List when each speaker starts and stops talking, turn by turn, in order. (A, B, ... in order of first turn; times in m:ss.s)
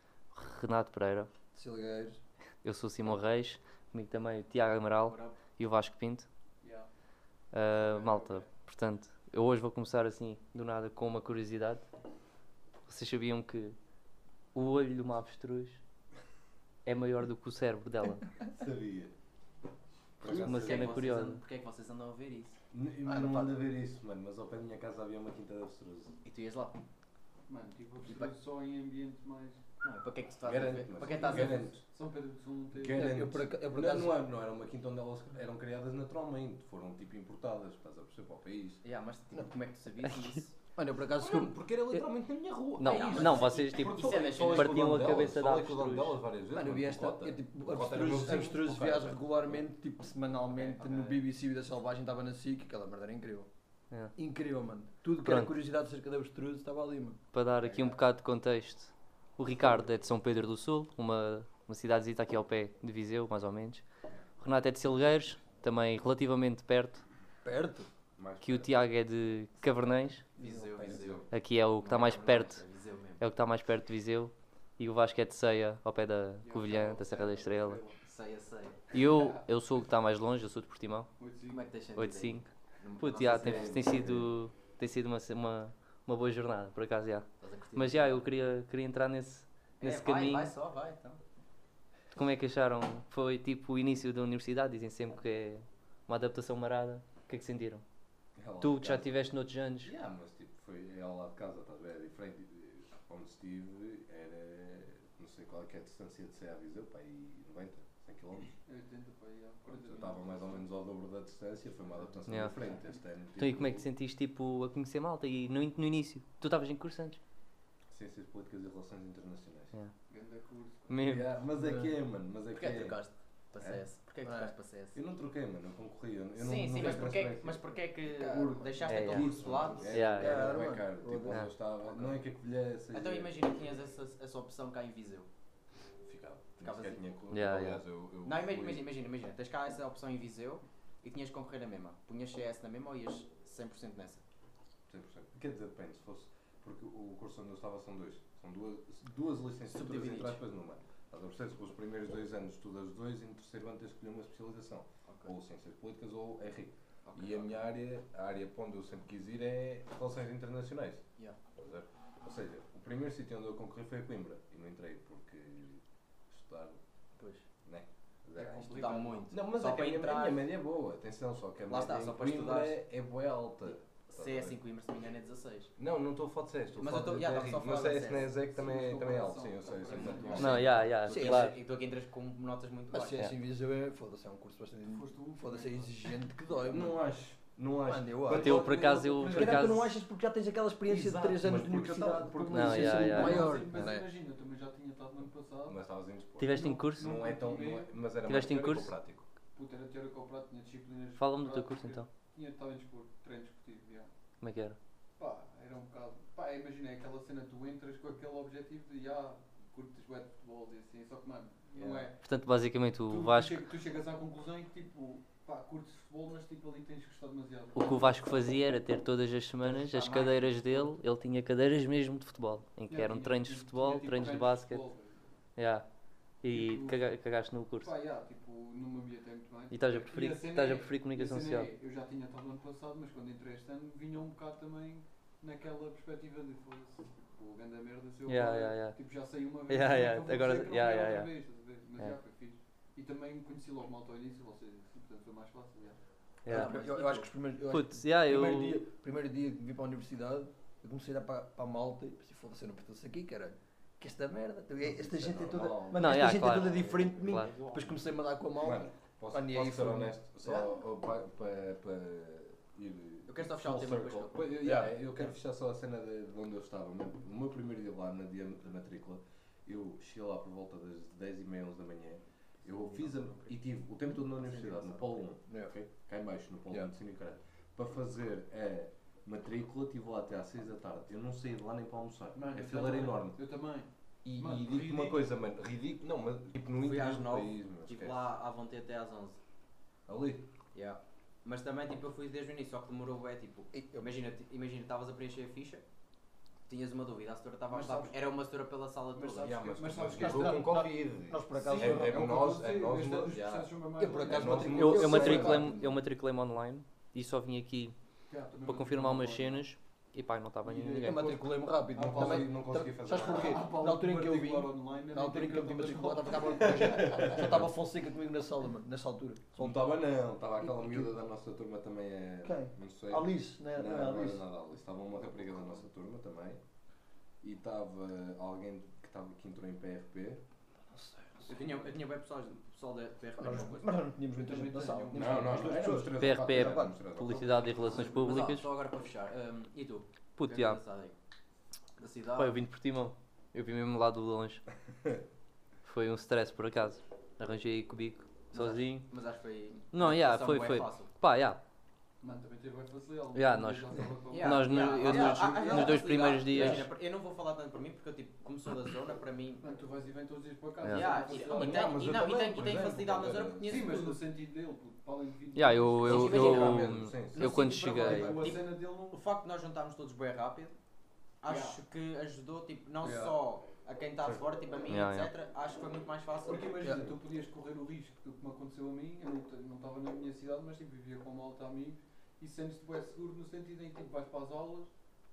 0:00.3-0:01.3 A
0:01.5-0:02.2 B
0:02.6-0:06.3 A
0:05.1-0:05.4 C
0:06.6-0:06.9 D
0:07.5-0:11.8 A
0:07.7-0:08.4 D
0:12.9-0:13.8 A
0:14.5-0:15.8 A
0:16.8-0:18.2 A
0:18.5-0:19.1 E
0:20.2-0:21.0 E
0:20.2-0:22.6 C
0:20.4-0:21.4 A
0:22.7-0:26.2 E
0:23.0-0:23.5 B
0:26.2-0:26.8 C
0:27.5-0:29.6 D
0:29.8-0:31.8 C
0:30.4-0:31.8 E
0:31.2-0:33.2 D
0:32.7-0:38.8 E
0:32.9-0:34.2 B
0:38.8-0:40.6 C
0:40.8-0:41.5 B
0:41.1-0:49.6 E
0:42.8-0:46.2 A
0:42.8-0:44.9 C
0:46.5-0:53.5 B
0:50.5-0:51.2 C
0:54.1-0:57.2 B
0:55.2-0:55.5 A
0:57.3-1:03.8 A
1:04.4-1:07.0 A
1:07.4-1:07.9 B
1:08.2-1:08.9 E
1:08.4-1:10.2 A
1:10.4-1:11.1 B
1:10.4-1:11.3 C
1:10.8-1:11.2 E
1:11.3-1:12.6 A
1:11.8-1:13.2 C
1:13.2-1:17.8 A
1:16.4-1:18.0 D
1:18.0-1:18.8 C
1:18.9-1:21.1 A
1:21.2-1:21.6 D
1:21.5-1:23.8 C
1:21.9-1:30.5 A
1:23.2-1:24.3 E
1:27.4-1:28.3 C
1:29.8-1:31.2 C
1:32.1-1:37.8 A
1:38.4-1:48.5 E
1:38.6-1:39.9 A
1:48.6-1:50.4 D
1:49.7-1:53.9 E
1:52.3-1:52.6 A
1:53.4-1:57.2 A
1:57.9-1:59.7 E
2:00.1-2:01.0 D
2:00.9-2:01.3 A
2:01.0-2:03.0 E
2:01.6-2:01.9 B
2:02.5-2:05.0 C
2:04.2-2:04.5 B
2:04.9-2:13.4 E
2:06.4-2:10.2 C
2:08.9-2:10.6 A
2:10.2-2:11.4 B
2:12.9-2:15.3 C
2:16.0-2:18.8 E
2:16.6-2:17.0 C
2:17.3-2:17.8 A
2:18.2-2:24.2 C
2:24.9-2:41.0 E
2:29.7-2:30.4 C
2:35.1-2:35.3 C
2:37.0-2:37.6 C
2:41.6-2:46.8 E
2:47.2-2:47.4 C
2:47.6-2:54.6 E
2:48.4-2:49.3 D
2:48.4-2:50.4 C
2:51.7-2:52.8 C
2:53.7-2:55.7 C
2:55.8-3:00.8 E
2:56.8-2:58.4 C
2:58.5-3:00.6 D
2:59.9-3:03.2 C
3:00.4-3:01.6 A
3:01.0-3:01.5 B
3:02.9-3:07.0 B
3:04.8-3:05.9 D
3:06.7-3:09.6 E
3:07.8-3:14.0 B
3:08.3-3:09.9 A
3:08.7-3:09.7 D
3:10.8-3:13.6 E
3:12.5-3:13.5 A
3:12.8-3:15.8 D
3:15.6-3:19.3 E
3:16.4-3:17.1 A
3:16.5-3:17.9 D
3:18.2-3:18.9 A
3:19.5-3:24.1 D
3:21.2-3:22.1 A
3:24.4-3:24.8 A
3:25.2-3:32.2 D
3:31.8-3:32.0 C
3:32.2-3:33.7 A
3:33.1-3:38.3 D
3:37.7-3:44.8 A
3:39.6-3:40.5 D
3:39.9-3:40.4 C
3:42.9-3:45.4 D
3:45.6-3:45.8 A
3:46.4-3:47.9 A
3:46.5-3:47.1 D
3:47.8-4:06.0 D
3:49.7-3:51.7 A
3:58.2-3:59.0 A
3:59.7-4:01.3 A
4:06.4-4:06.8 A
4:06.5-4:07.3 C
4:06.5-4:20.2 B
4:07.7-4:08.8 A
4:14.8-4:17.2 E
4:15.9-4:17.5 A
4:18.6-4:43.4 E
4:23.3-4:24.6 C
4:24.6-4:25.3 B
4:32.6-4:35.2 C
4:42.3-4:45.2 D
4:44.2-4:48.2 E
4:46.8-4:49.4 C
4:50.1-4:50.4 E
4:50.7-4:55.8 C
4:53.7-4:54.0 B
4:56.7-4:59.7 C
4:57.7-4:58.1 D
4:59.1-5:00.8 D
4:59.4-5:05.8 E
5:00.0-5:02.3 B
5:01.6-5:05.6 D
5:04.0-5:06.0 B
5:04.7-5:07.9 A
5:08.3-5:09.6 D
5:08.6-5:11.4 A
5:10.6-5:17.6 D
5:11.0-5:19.8 B
5:11.9-5:13.6 E
5:16.7-5:17.7 E
5:19.6-5:26.6 E
5:20.6-5:21.1 B
5:22.4-5:24.4 B
5:27.4-5:30.4 E
5:30.9-5:31.6 B
5:31.5-5:34.0 C
5:33.4-5:37.0 B
5:34.3-5:35.8 D
5:35.1-5:37.6 E
5:36.1-5:38.7 A
5:37.5-5:41.1 C
5:40.4-5:40.8 A
5:42.0-5:42.6 C
5:42.3-5:44.6 A
5:45.8-5:49.1 A
5:48.5-5:51.1 C
5:49.9-5:51.6 A
5:52.2-5:56.0 D
5:53.3-5:53.9 A
5:54.3-5:59.8 C
5:54.4-5:56.9 A
5:56.5-5:56.8 D
5:59.6-6:02.0 D
6:00.8-6:01.1 A
6:00.9-6:04.2 C
6:01.3-6:03.9 E
6:03.6-6:06.5 D
6:05.5-6:08.4 A
6:06.0-6:10.7 C
6:06.1-6:07.5 E
6:07.8-6:09.2 D
6:11.4-6:16.9 C
6:11.4-6:11.8 D
6:13.0-6:13.3 B
6:14.9-6:15.3 A
6:16.4-6:24.9 D
6:16.8-6:17.1 B